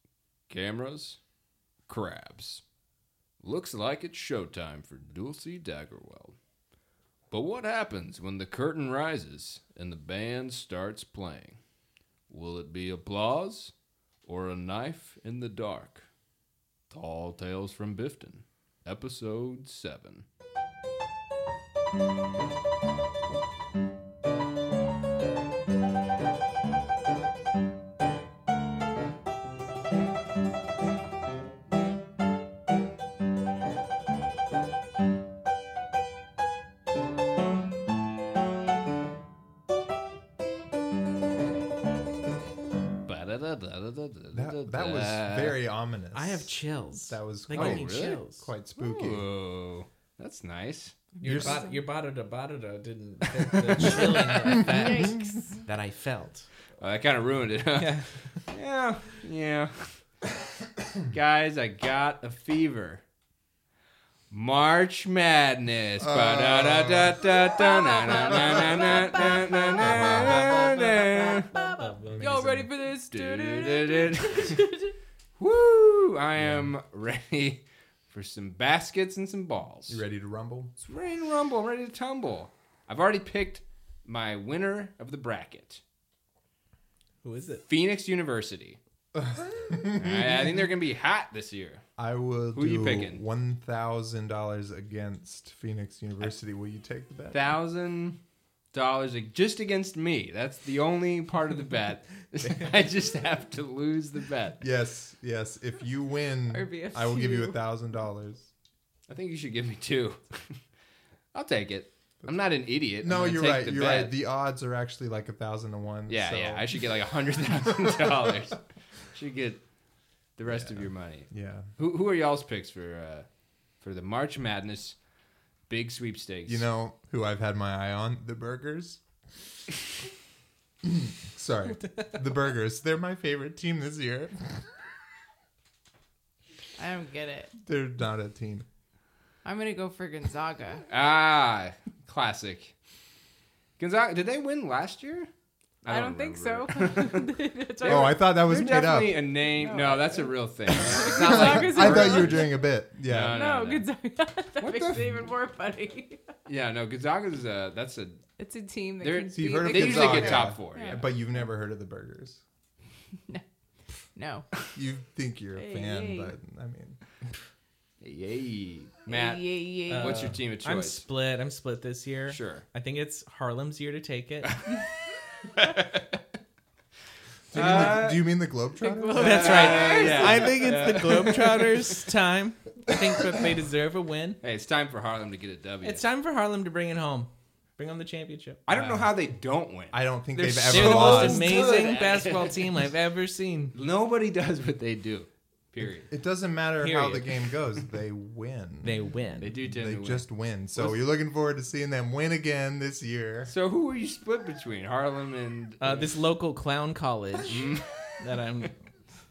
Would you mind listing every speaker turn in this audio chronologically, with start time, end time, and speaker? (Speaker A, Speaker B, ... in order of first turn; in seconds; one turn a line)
Speaker A: 0.5-1.2
Speaker A: 1.9-2.6
Speaker A: 3.4-6.4
Speaker A: 7.3-11.6
Speaker A: 12.3-13.7
Speaker A: 14.3-16.1
Speaker A: 16.9-20.3
Speaker A: 43.1-45.6
Speaker B: 44.3-46.5
Speaker C: 46.1-48.5
Speaker B: 47.1-49.2
Speaker A: 47.5-48.2
Speaker A: 48.8-51.0
Speaker D: 51.1-51.8
Speaker C: 51.2-56.5
Speaker B: 51.2-51.7
Speaker D: 54.5-55.6
Speaker A: 56.8-60.0
Speaker C: 57.8-58.5
Speaker A: 61.1-63.0
Speaker A: 64.3-71.5
Speaker B: 66.0-67.2
Speaker D: 67.4-75.0
Speaker B: 69.8-70.8
Speaker C: 70.0-72.4
Speaker B: 72.1-72.7
Speaker A: 73.1-74.7
Speaker A: 75.4-80.0
Speaker B: 76.4-76.7
Speaker B: 79.9-80.7
Speaker A: 80.8-85.8
Speaker C: 87.2-87.6
Speaker A: 87.7-88.8
Speaker B: 89.2-90.7
Speaker A: 90.0-91.8
Speaker B: 92.0-97.4
Speaker A: 92.5-93.2
Speaker A: 97.3-98.2
Speaker A: 98.7-104.6
Speaker B: 104.6-108.5
Speaker D: 106.5-107.6
Speaker A: 109.1-110.6
Speaker A: 111.3-114.1
Speaker B: 113.0-116.9
Speaker A: 116.1-119.6
Speaker B: 117.5-118.3
Speaker A: 120.4-123.3
Speaker B: 120.5-121.7
Speaker A: 123.8-125.0
Speaker A: 125.7-126.7
Speaker B: 126.5-129.0
Speaker B: 130.8-134.7
Speaker D: 136.8-137.5
Speaker B: 137.6-138.7
Speaker D: 139.4-140.8
Speaker A: 140.9-142.8
Speaker A: 143.8-145.3
Speaker A: 145.8-147.3
Speaker D: 145.9-148.2
Speaker A: 147.8-152.5
Speaker B: 147.8-149.2
Speaker D: 149.6-152.7
Speaker B: 151.1-153.4
Speaker A: 153.1-153.9
Speaker D: 153.3-156.3
Speaker A: 154.6-155.3
Speaker A: 156.5-158.2
Speaker D: 158.4-161.1
Speaker A: 159.0-161.1
Speaker B: 159.3-162.4
Speaker D: 164.1-164.5
Speaker B: 164.7-167.0
Speaker D: 165.6-166.3
Speaker A: 168.0-169.4
Speaker D: 169.1-170.3
Speaker C: 169.9-174.6
Speaker A: 170.0-171.0
Speaker A: 172.3-172.7
Speaker A: 174.5-174.9
Speaker A: 175.4-176.2
Speaker B: 177.5-179.7
Speaker A: 177.5-178.3
Speaker D: 178.8-181.4
Speaker C: 179.2-184.4
Speaker A: 179.2-181.9
Speaker A: 184.4-186.1
Speaker C: 185.8-188.7
Speaker A: 188.7-192.7
Speaker B: 188.7-189.1
Speaker B: 189.9-191.9
Speaker C: 190.7-193.7
Speaker A: 193.7-196.1
Speaker B: 196.1-199.1
Speaker C: 196.8-197.5
Speaker C: 198.8-199.5
Speaker A: 199.4-201.0
Speaker B: 199.6-203.5
Speaker A: 203.5-206.1
Speaker C: 205.8-208.7
Speaker A: 207.5-208.2